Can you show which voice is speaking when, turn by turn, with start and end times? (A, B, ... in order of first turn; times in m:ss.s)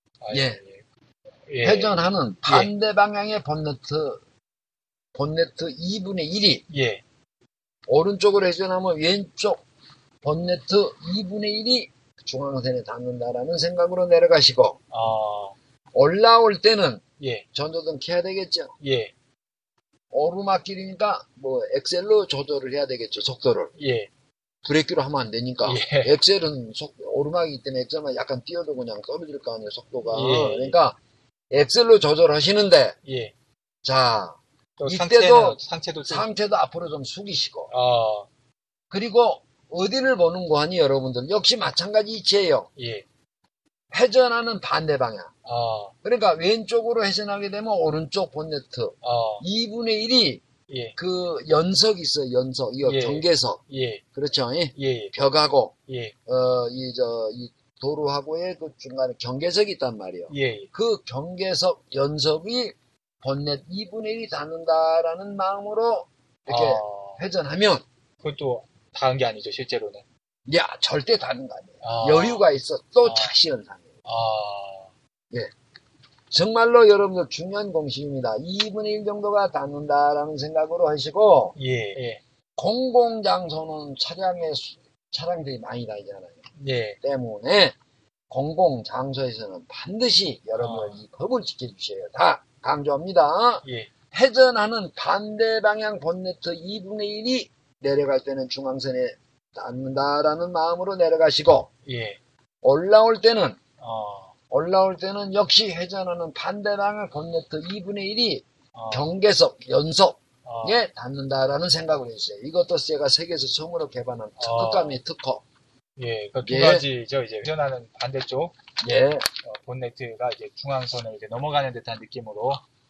0:00.2-0:00.8 A
0:00.3-0:00.6 B
0:01.5-0:02.7 A
0:01.6-0:04.2 B
0:05.1-0:06.6 B
0:06.7-0:07.0 A
0:07.9-0:09.6 B
0:10.2-0:14.8 B
0:14.9-0:15.6 A
0:15.9-0:17.0 B
0:17.2-0:17.5 A
0:17.5-0:18.7 B
0:18.8-0:19.1 A
0:20.1-0:23.7 B
0:23.8-0:24.1 A
0:24.6-0:31.0 B
0:25.6-0:26.2 A
0:30.1-0:30.8 A
0:31.5-0:33.0 B
0:33.0-0:33.3 A
0:33.8-0:37.7 B
0:34.8-0:36.3 A
0:37.7-0:38.3 A
0:38.9-0:42.7 B
0:42.8-0:43.0 A
0:43.9-0:45.3 B
0:45.4-0:45.9 A
0:46.0-0:50.4 B
0:49.0-0:49.4 A
0:50.7-0:51.0 A
0:51.0-0:53.6 B
0:52.8-0:54.0 A
0:54.2-0:55.7 B
0:54.7-0:55.4 A
0:55.9-0:56.2 A
0:56.3-1:07.8 B
1:00.3-1:00.7 A
1:06.5-1:07.2 A
1:08.2-1:10.0 A
1:10.5-1:13.9 B
1:11.8-1:12.5 A
1:13.0-1:13.3 A
1:14.1-1:14.9 A
1:16.3-1:21.6 B
1:21.6-1:22.2 A
1:22.6-1:26.5 B
1:26.6-1:27.0 A
1:27.0-1:27.8 B
1:28.3-1:41.7 B
1:30.6-1:31.0 A
1:33.6-1:33.9 A
1:41.8-1:42.2 A
1:42.6-1:43.6 B
1:43.8-1:44.3 A
1:44.5-1:55.4 B
1:48.7-1:49.1 A
1:50.4-1:50.8 A
1:54.4-1:55.0 A
1:56.0-1:58.5 A
1:56.4-1:56.9 B
1:58.8-1:59.3 B
1:59.4-2:02.6 A